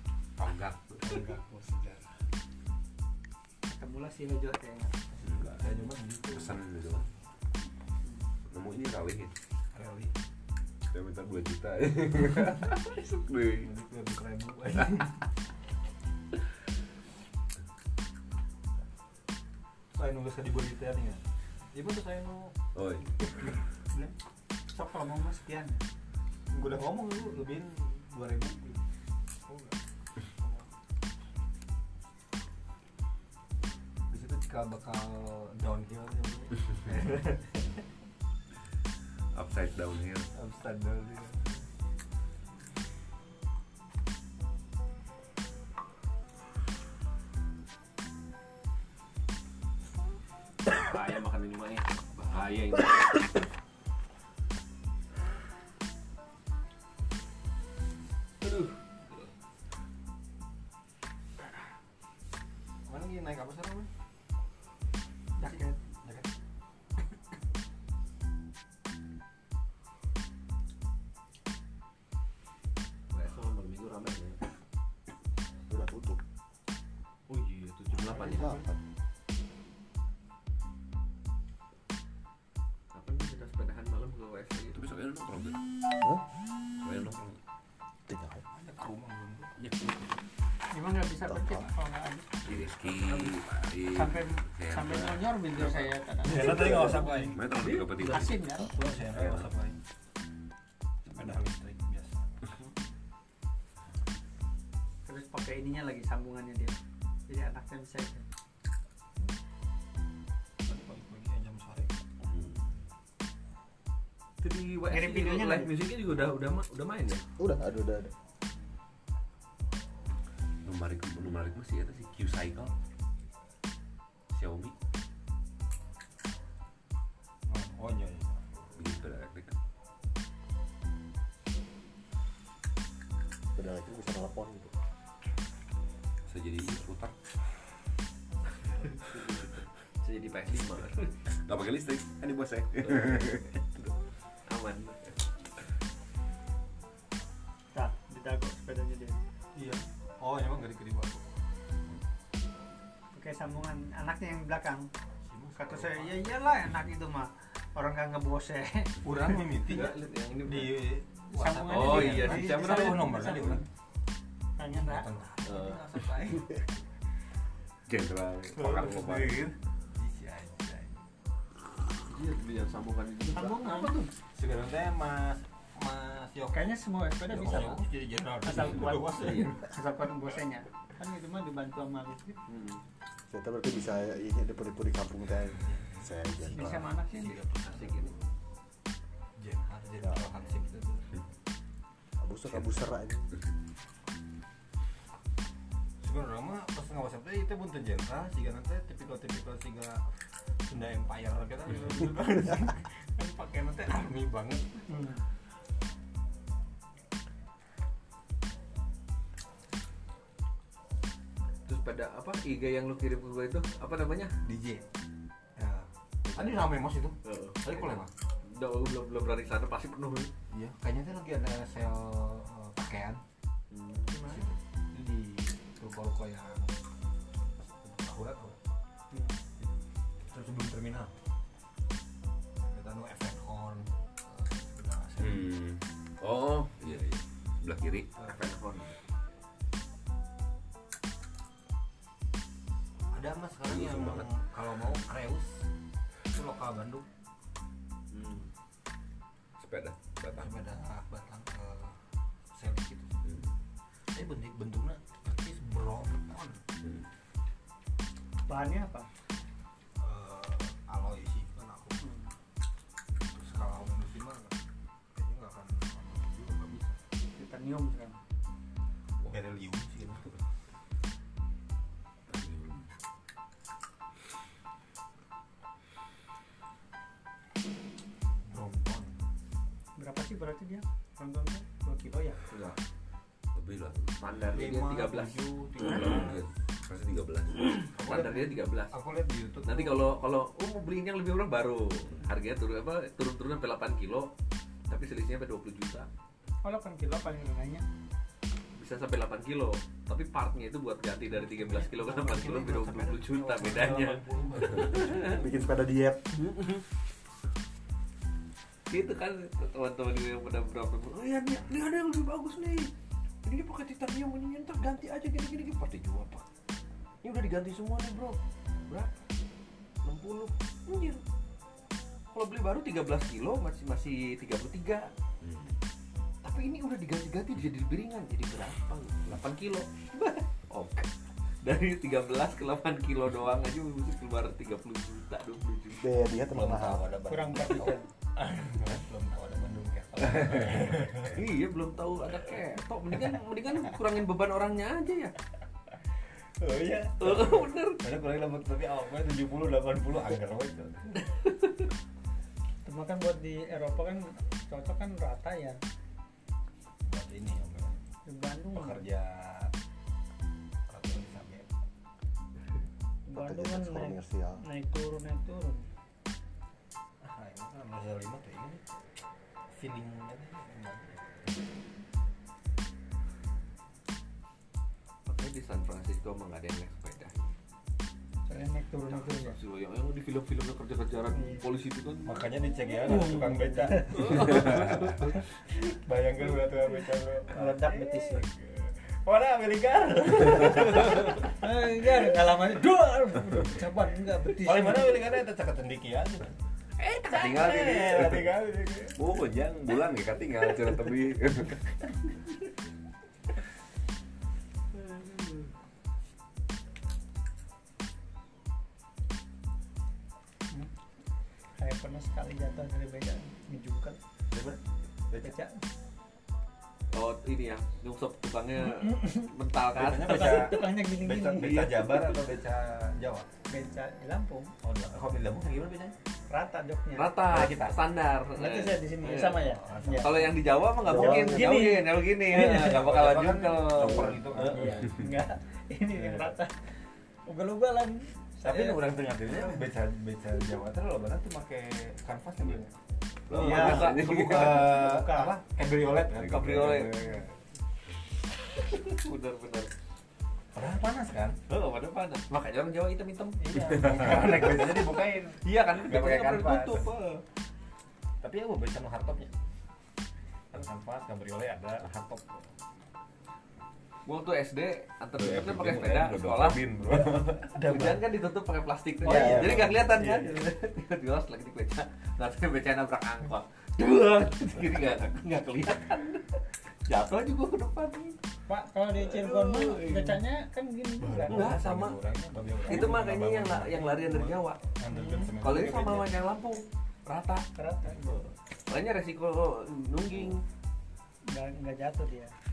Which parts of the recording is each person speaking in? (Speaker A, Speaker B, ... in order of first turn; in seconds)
Speaker A: 0.4-1.1, 5.2-5.5, 6.3-7.0, 8.5-9.3, 10.9-13.7, 22.7-23.4, 39.3-40.3, 84.7-85.6, 86.8-87.4, 92.4-95.9, 97.2-99.5, 112.3-112.6, 120.6-122.7, 124.3-124.7, 128.8-129.6, 136.3-137.2, 141.3-143.9, 167.9-169.3, 192.5-192.8, 235.2-238.5, 243.7-244.4, 249.6-250.5, 253.2-253.5, 256.8-257.1, 272.3-272.9, 283.5-284.2, 285.9-287.8, 325.4-325.7, 399.2-401.8, 443.5-444.8, 446.4-446.9, 465.4-467.6
Speaker B: 1.0-2.2, 5.3-7.1, 9.7-10.1, 13.6-15.3, 19.9-22.5, 23.4-24.1, 26.5-28.8, 29.4-29.8, 30.3-30.7, 34.1-37.6, 40.4-41.6, 62.9-63.9, 65.4-66.3, 88.5-89.5, 96.2-97.4, 98.0-99.8, 101.0-102.4, 110.6-112.0, 127.5-128.8, 138.6-139.0, 149.5-151.4, 155.2-156.3, 159.0-163.6, 164.7-166.7, 168.6-171.0, 174.3-179.7, 185.6-188.1, 189.4-191.2, 196.0-204.9, 214.4-214.8, 215.6-218.1, 220.5-223.2, 224.2-226.8, 227.6-228.6, 230.2-231.1, 232.7-235.5, 238.2-238.4, 243.1-245.7, 246.3-247.1, 250.3-253.1, 254.1-256.6, 260.0-262.1, 263.3-264.6, 265.1-267.0, 269.3-270.3, 278.4-279.1, 284.5-286.4, 287.9-290.1, 301.4-305.4, 336.5-341.4, 346.4-351.2, 357.1-358.0, 358.7-359.7, 360.9-361.7, 367.2-368.8, 369.7-371.6, 382.2-391.5, 394.6-396.6, 397.3-399.2, 414.5-414.8, 419.9-423.5, 424.8-426.1, 427.5-428.0, 429.7-430.8, 432.8-435.1, 436.1-436.5, 438.6-442.9, 443.6-447.6, 450.7-451.6, 453.6-457.1, 458.4-459.5, 460.7-462.8, 467.1-468.2, 469.2-470.6, 481.2-486.3
Speaker C: 3.7-4.9, 24.7-25.8, 65.4-65.8, 90.7-92.5, 93.9-97.4, 98.0-98.9, 105.0-106.8, 107.3-108.3, 114.9-115.7, 147.7-149.2, 153.1-154.9, 155.6-159.2, 161.3-163.6, 164.6-165.1, 173.3-173.9, 176.5-177.8, 178.4-182.4, 186.4-187.4, 204.9-205.2, 229.1-229.4, 258.5-259.1, 262.0-262.3, 267.4-268.2, 280.0-282.4, 296.6-297.8, 337.3-338.1, 352.8-355.8, 358.2-359.0, 363.3-365.9, 378.5-379.6, 381.3-381.6, 383.1-384.6, 387.5-388.5, 391.5-395.1, 411.8-414.2, 415.4-415.8, 418.8-419.4, 420.3-421.9, 423.7-424.7, 426.5-427.3, 428.6-430.4, 431.1-433.0, 434.6-439.8, 443.5-445.5, 469.2-469.7, 478.7-481.7, 485.1-485.6, 487.7-488.5, 491.5-492.5
Speaker D: 50.7-53.2, 58.4-58.8, 73.1-74.4, 77.3-78.7, 82.9-84.8, 114.4-117.2, 139.0-141.1, 142.8-143.5, 144.5-145.1, 159.7-160.8, 161.7-163.5, 165.4-165.9, 172.1-174.1, 179.2-179.5, 182.5-182.8, 187.6-188.1, 211.7-214.3, 216.3-216.7, 217.2-220.3, 223.7-224.5, 238.4-239.0, 248.1-248.5, 282.5-282.8, 284.2-285.4, 287.9-288.9, 289.6-294.3, 294.9-296.1, 298.8-305.4, 306.4-306.8, 308.9-312.9, 313.4-316.4, 317.2-318.4, 320.0-321.2, 322.3-325.1, 326.4-331.1, 331.6-336.0, 341.3-345.3, 347.2-348.0, 351.3-351.9, 375.2-377.3, 379.1-382.3, 384.1-385.3, 397.0-398.2, 405.0-405.6, 417.1-420.8, 427.1-434.9, 443.5-444.9, 446.4-447.1, 448.8-449.9, 451.7-455.1, 455.6-457.4, 464.2-466.8, 467.8-478.4, 479.1-480.4, 481.5-482.2, 482.8-484.8, 485.6-487.6, 488.9-490.6
Speaker E: 75.7-76.2, 78.2-78.8, 88.1-88.4, 91.2-91.7, 117.4-118.1, 133.5-134.7, 183.3-186.7, 192.2-193.3, 305.2-306.3, 336.0-337.0, 363.3-364.6, 431.0-431.8